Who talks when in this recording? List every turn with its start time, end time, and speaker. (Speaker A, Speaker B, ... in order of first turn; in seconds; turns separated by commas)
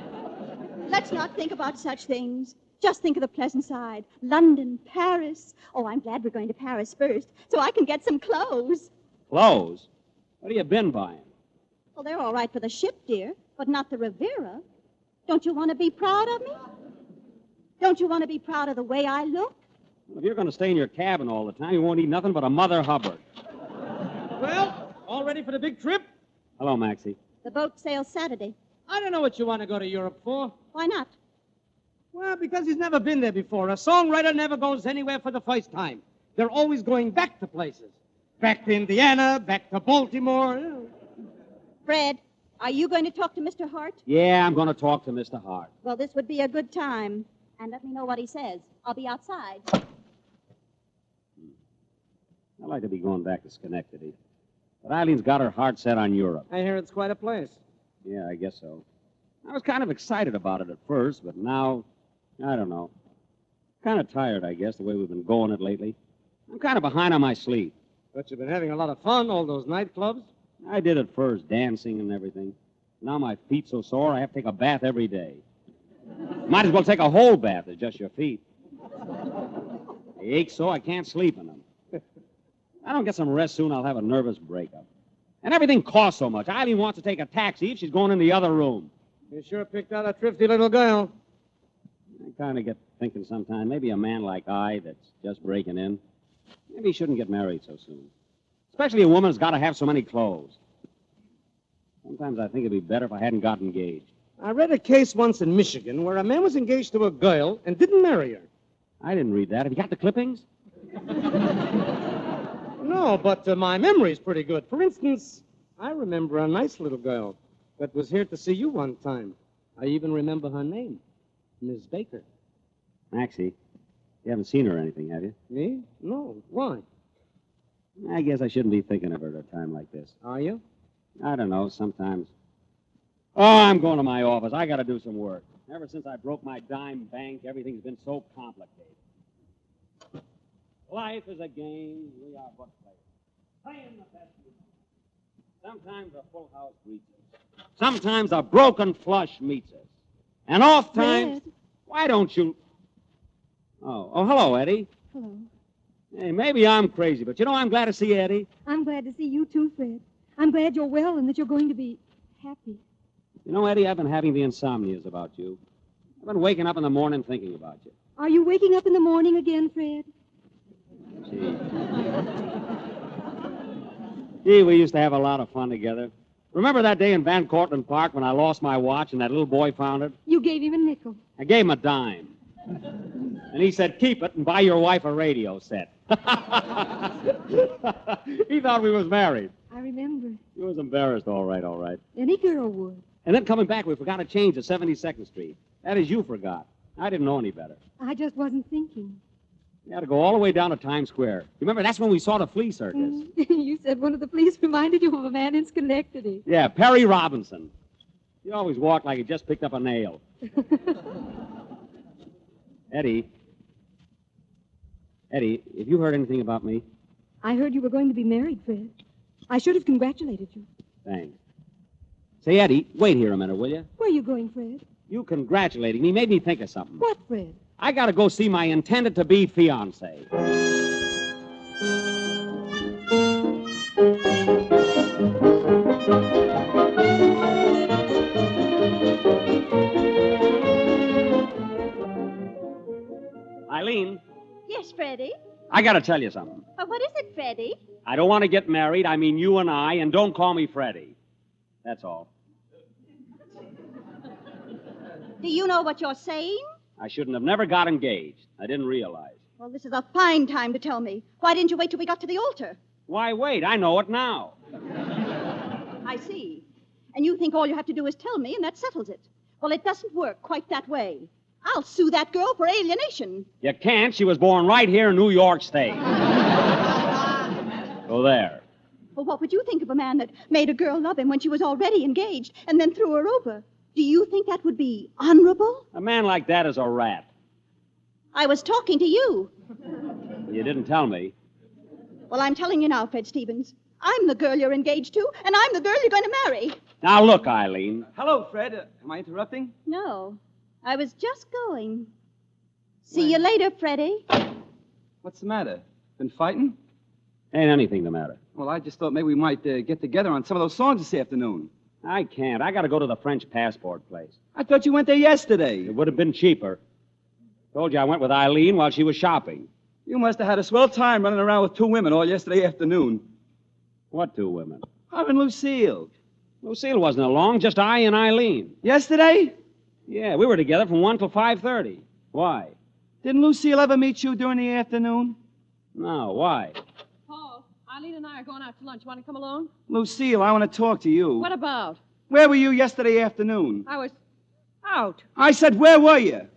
Speaker A: 0.9-8.9, Speaker B: 9.3-9.9, Speaker B: 10.4-11.3, Speaker A: 12.0-14.6, Speaker A: 15.3-16.6, Speaker A: 17.8-19.6, Speaker B: 20.1-23.2, Speaker C: 24.4-26.1, Speaker B: 26.6-27.2, Speaker A: 27.4-28.6, Speaker C: 28.9-30.6, Speaker A: 30.7-31.1, Speaker C: 32.1-40.9, Speaker A: 41.9-44.0, Speaker B: 44.1-45.7, Speaker A: 45.8-49.7, Speaker B: 52.6-54.1, Speaker B: 54.8-56.5, Speaker C: 56.5-57.6, Speaker B: 58.0-58.8, Speaker B: 59.5-61.9, Speaker B: 62.4-62.9, Speaker B: 63.8-66.0, Speaker B: 66.5-67.7, Speaker C: 68.1-70.3, Speaker B: 70.6-75.4, Speaker B: 76.5-78.4, Speaker B: 80.2-81.6, Speaker B: 82.8-84.9, Speaker B: 85.4-88.9, Speaker C: 89.3-91.1, Speaker B: 92.2-96.0, Speaker B: 96.7-98.1, Speaker B: 98.7-100.6, Speaker B: 102.0-104.1, Speaker C: 104.4-108.5, Speaker B: 109.0-110.4, Speaker C: 112.8-121.0, Speaker C: 121.6-122.2, Speaker B: 123.1-123.5, Speaker B: 124.2-125.3, Speaker C: 125.5-126.8, Speaker B: 128.0-130.1, Speaker C: 130.2-130.6, Speaker B: 131.2-132.3, Speaker B: 133.4-138.9, Speaker B: 140.9-143.0, Speaker B: 143.7-144.6, Speaker B: 145.6-147.2, Speaker B: 147.8-149.8, Speaker B: 150.5-152.6, Speaker D: 150.9-151.5, Speaker B: 153.8-154.9, Speaker D: 155.1-155.5, Speaker B: 156.1-158.5, Speaker D: 158.7-162.8, Speaker B: 163.5-165.6, Speaker B: 166.2-167.9, Speaker D: 168.2-170.1, Speaker B: 171.3-171.7, Speaker B: 174.4-180.2, Speaker D: 180.3-181.2, Speaker B: 181.4-182.3, Speaker B: 183.5-189.5, Speaker D: 189.7-190.4, Speaker B: 190.6-192.0, Speaker D: 192.2-193.0, Speaker B: 193.2-197.8, Speaker D: 198.0-199.2, Speaker B: 199.9-203.2, Speaker D: 202.9-206.4, Speaker B: 206.5-207.7, Speaker B: 208.4-210.2, Speaker B: 212.9-213.3, Speaker B: 215.3-216.8, Speaker D: 217.4-218.9, Speaker D: 219.5-220.7, Speaker B: 221.1-221.3, Speaker B: 222.4-223.9, Speaker D: 224.0-224.8, Speaker B: 225.1-227.0, Speaker D: 227.0-227.6, Speaker B: 227.8-230.3, Speaker B: 243.7-244.2, Speaker A: 244.7-245.3, Speaker B: 245.7-246.6, Speaker A: 246.8-247.8, Speaker B: 248.1-251.2, Speaker B: 251.8-252.3, Speaker A: 255.4-256.6, Speaker B: 257.0-259.4, Speaker A: 259.6-262.8, Speaker B: 263.1-264.6, Speaker A: 266.1-266.6, Speaker A: 267.1-273.5, Speaker B: 273.6-276.0, Speaker B: 278.1-278.6, Speaker A: 279.1-285.9, Speaker B: 285.9-287.3, Speaker A: 288.3-289.5, Speaker B: 290.5-291.3, Speaker A: 292.3-296.8, Speaker B: 297.0-298.1, Speaker E: 298.1-299.7, Speaker A: 299.9-302.1, Speaker A: 303.1-304.2, Speaker E: 305.2-306.8, Speaker B: 307.5-308.4, Speaker E: 308.6-311.7, Speaker B: 312.0-314.4, Speaker E: 314.6-315.9, Speaker B: 315.9-316.8, Speaker B: 317.7-319.7, Speaker E: 320.1-323.2, Speaker B: 324.1-324.8, Speaker E: 325.1-326.1, Speaker B: 326.6-328.8, Speaker E: 328.8-329.5, Speaker B: 330.1-332.7, Speaker E: 333.2-335.4, Speaker B: 335.9-336.8, Speaker F: 337.3-339.7, Speaker E: 339.9-341.5, Speaker F: 341.4-342.0, Speaker E: 342.3-343.9, Speaker F: 343.9-344.1, Speaker F: 344.8-345.2, Speaker E: 345.4-346.5